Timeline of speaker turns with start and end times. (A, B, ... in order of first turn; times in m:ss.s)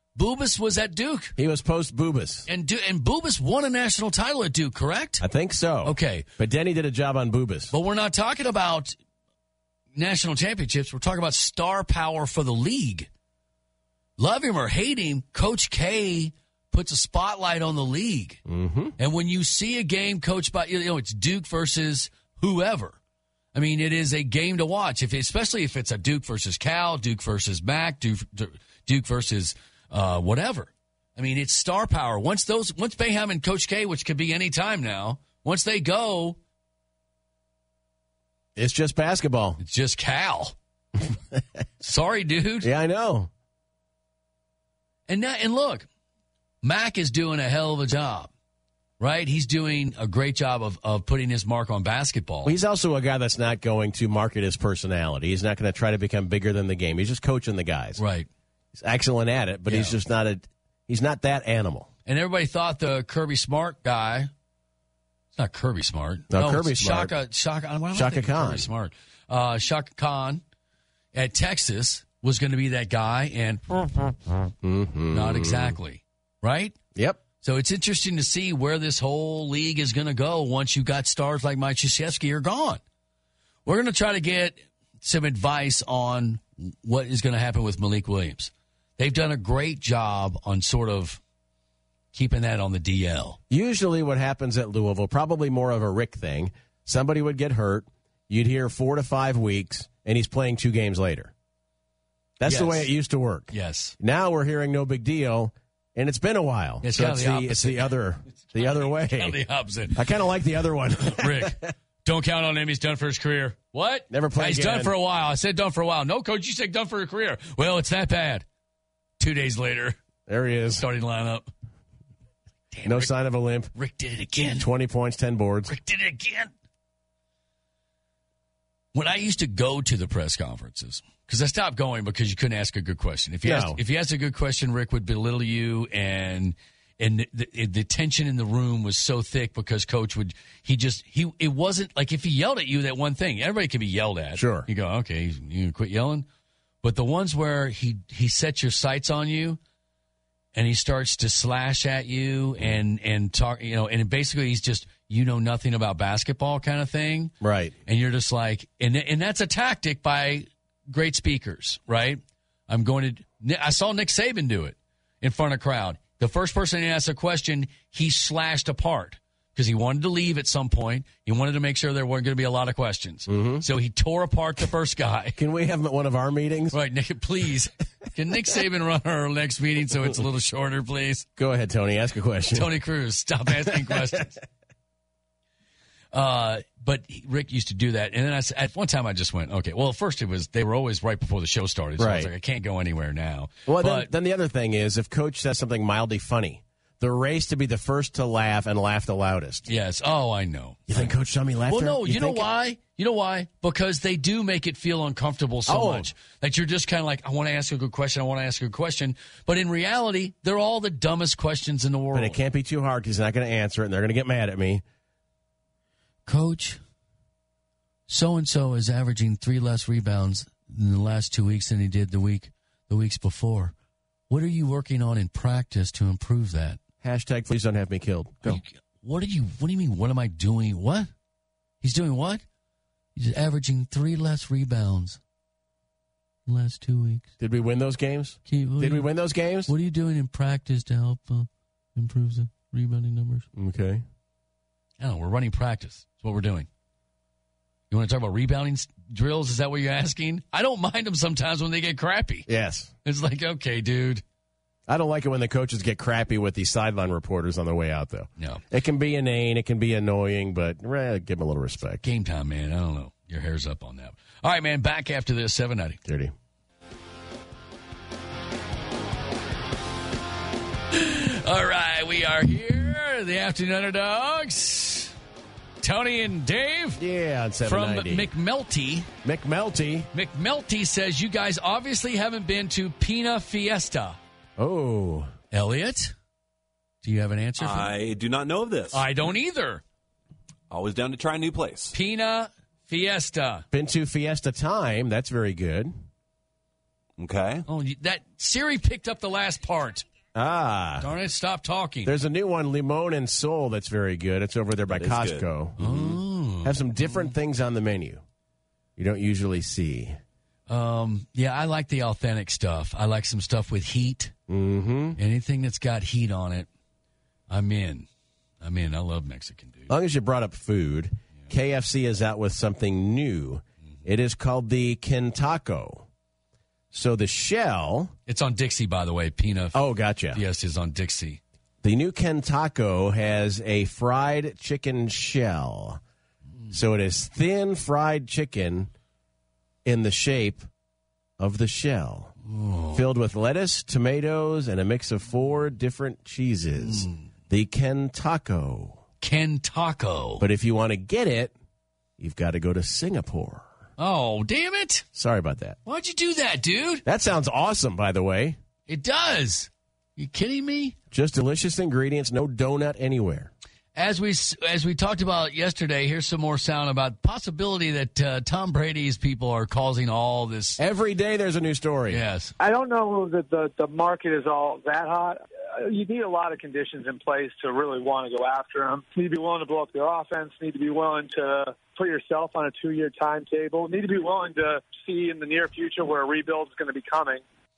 0:00.2-0:01.4 A
0:01.4-0:02.5 B
0:02.5-0:05.2 A
0:05.2-0:07.7 B
0:05.8-0:06.3 A
0:07.7-0:09.0 A
0:10.0-0:13.1 A
0:14.2-0:18.4 A
0:18.5-0:19.0 B
0:19.0-0:23.0 A
0:23.5-0:36.4 A
0:38.6-0:39.6 B
0:39.6-0:40.6 A
0:41.8-0:42.7 A
0:42.6-0:43.3 B
0:45.1-0:45.9 A
0:46.6-0:48.3 A
0:49.0-0:52.6 A
0:52.4-0:58.0 B
0:58.0-0:58.3 A
0:58.7-1:01.9 B
0:59.7-1:00.0 A
1:02.1-1:04.3 A
1:05.4-1:10.4 A
1:06.3-1:07.2 B
1:07.9-1:08.7 B
1:11.1-1:14.2 A
1:14.6-1:15.8 B
1:15.1-1:16.8 A
1:17.0-1:17.2 B
1:17.4-1:22.8 A
1:23.7-1:31.2 A
1:32.1-1:33.4 A
1:33.5-1:41.3 B
1:42.4-1:49.4 B
1:42.5-1:42.9 A
1:43.5-1:44.0 A
1:46.8-1:50.0 A
1:50.0-1:51.7 B
1:51.0-1:58.4 A
1:54.1-1:55.0 B
1:59.2-2:00.0 A
2:00.3-2:00.8 B
2:00.8-2:01.5 A
2:02.7-2:03.1 A
2:02.8-2:03.7 B
2:03.8-2:04.7 A
2:04.5-2:05.7 B
2:05.7-2:06.5 A
2:08.9-2:26.3 A
2:13.4-2:13.8 B
2:24.4-2:24.7 B
2:26.8-2:29.6 A
2:30.5-2:37.3 A
2:37.4-2:37.7 B
2:37.9-2:55.4 A
2:53.3-2:53.6 B
2:55.4-2:56.8 B
2:56.7-3:01.3 A
3:01.4-3:02.7 B
3:02.5-3:04.4 A
3:03.6-3:04.2 B
3:06.1-3:14.1 A
3:12.0-3:12.3 B
3:13.7-3:19.7 B
3:19.7-3:21.1 A
3:20.9-3:22.5 B
3:21.7-3:32.4 A
3:25.7-3:26.1 B
3:32.1-3:34.8 B
3:36.3-3:36.8 A
3:38.1-3:43.7 A
3:44.3-3:46.8 A
3:47.0-3:48.6 B
3:48.4-3:51.1 A
3:51.8-3:52.4 A
3:53.2-3:55.2 A
3:56.5-3:57.3 A
3:57.4-3:59.7 B
3:58.5-3:59.1 A
3:59.7-4:03.5 A
4:03.6-4:04.0 B
4:05.0-4:06.7 A
4:07.9-4:12.5 A
4:12.5-4:12.9 B
4:13.0-4:14.2 A
4:14.9-4:22.0 B
4:22.0-4:26.0 A
4:26.0-4:26.3 B
4:30.9-4:35.1 A
4:35.8-4:37.0 A
4:37.0-4:38.3 B
4:37.6-4:39.1 A
4:39.2-4:40.1 B
4:40.1-4:44.2 A
4:44.6-4:45.3 B
4:45.5-4:46.1 A
4:47.0-4:47.9 A
4:47.6-4:49.1 C
4:48.9-4:49.8 A
4:50.7-4:51.9 C
4:51.9-4:53.6 A
4:53.7-4:55.9 B
4:57.2-4:57.7 C
4:57.7-5:00.0 A
5:00.4-5:01.1 B
5:01.0-5:02.1 A
5:02.0-5:08.2 B
5:04.9-5:05.4 C
5:05.8-5:07.3 A
5:09.0-5:10.2 B
5:10.7-5:14.3 A
5:14.5-5:15.2 B
5:15.2-5:16.7 A
5:17.5-5:18.1 A
5:18.6-5:19.9 A
5:19.9-5:26.1 B
5:26.9-5:28.1 B
5:28.3-5:29.8 A
5:29.7-5:30.4 B
5:30.3-5:31.4 A
5:31.8-5:36.0 B
5:36.7-5:38.9 B
5:39.8-5:40.6 B
5:41.4-5:42.3 B
5:42.4-5:43.0 A
5:42.9-5:49.0 B
5:46.9-5:47.2 A
5:49.2-5:50.4 A
5:50.4-5:51.5 B
5:52.2-5:53.7 B
5:54.0-5:55.0 A
5:55.2-5:55.8 B
5:55.8-5:57.0 A
5:57.0-5:58.6 B
5:58.9-6:01.0 A
6:01.1-6:03.5 B
6:04.0-6:10.8 A
6:10.8-6:12.2 B
6:12.1-6:12.5 A
6:12.6-6:27.4 D